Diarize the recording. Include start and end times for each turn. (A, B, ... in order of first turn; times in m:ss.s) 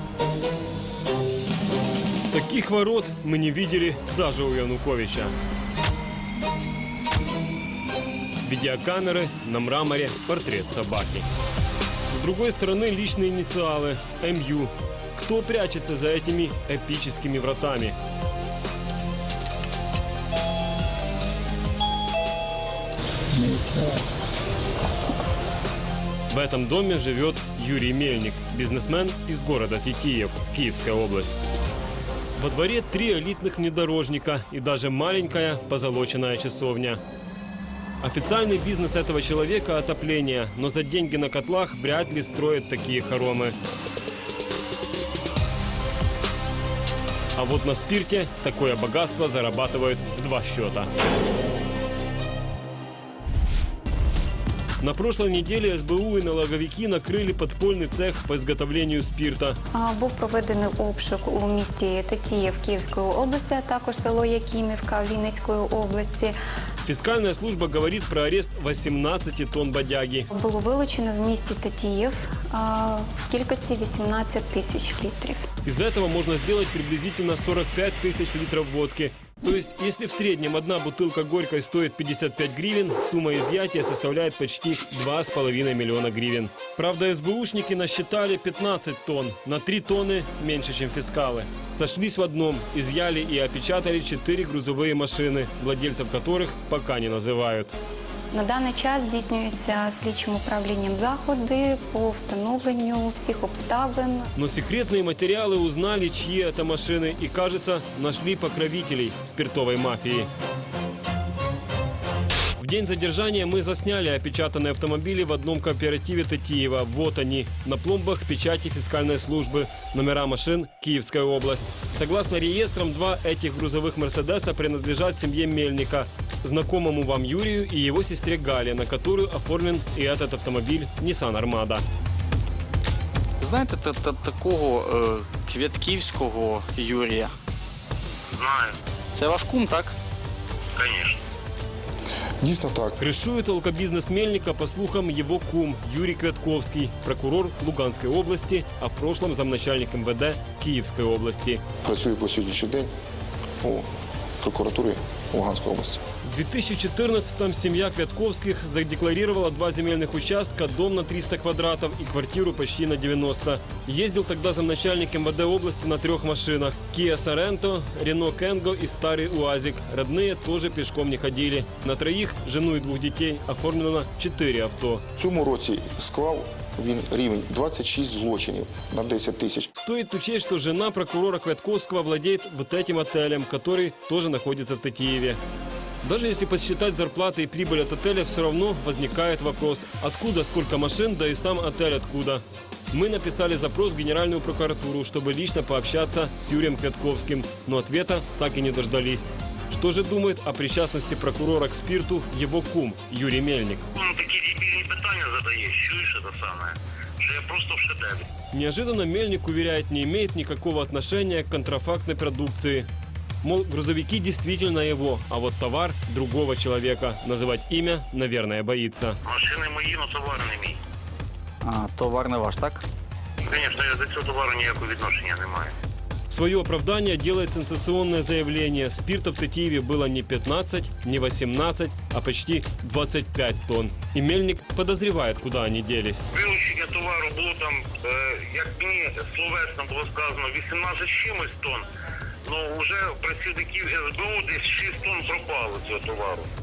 0:02.3-0:05.3 A
0:08.4-0:11.3 A
0:12.1-0:18.0 A
0:23.4-0:24.0 B
0:26.3-0:31.3 A
0:32.4-0:37.0 A
0:38.0-0:43.6 A
0:47.4-0:50.9 A
0:54.8-0:59.6 A
0:59.7-1:06.4 C
1:06.8-1:10.3 A
1:10.3-1:15.5 C
1:15.6-1:37.7 A
1:38.3-1:44.3 C
1:44.4-1:50.3 A
1:52.6-2:11.8 A
2:13.4-2:17.3 B
2:18.4-2:18.7 D
2:19.2-2:20.0 B
2:20.8-2:21.2 D
2:22.4-2:23.0 E
2:23.0-2:31.6 A
2:31.8-2:32.9 E
2:33.6-2:33.9 E
2:34.4-2:36.0 E
2:36.2-2:55.0 A
2:55.2-2:59.7 E
2:59.8-3:05.4 A
3:06.0-3:23.9 A
3:23.9-3:28.3 D
3:28.5-3:32.9 A
3:33.4-3:39.2 A
3:39.2-3:40.8 D
3:41.6-3:42.8 B
3:43.4-3:45.7 D
3:46.3-3:56.2 A
3:56.3-4:01.8 D
4:02.4-4:06.5 D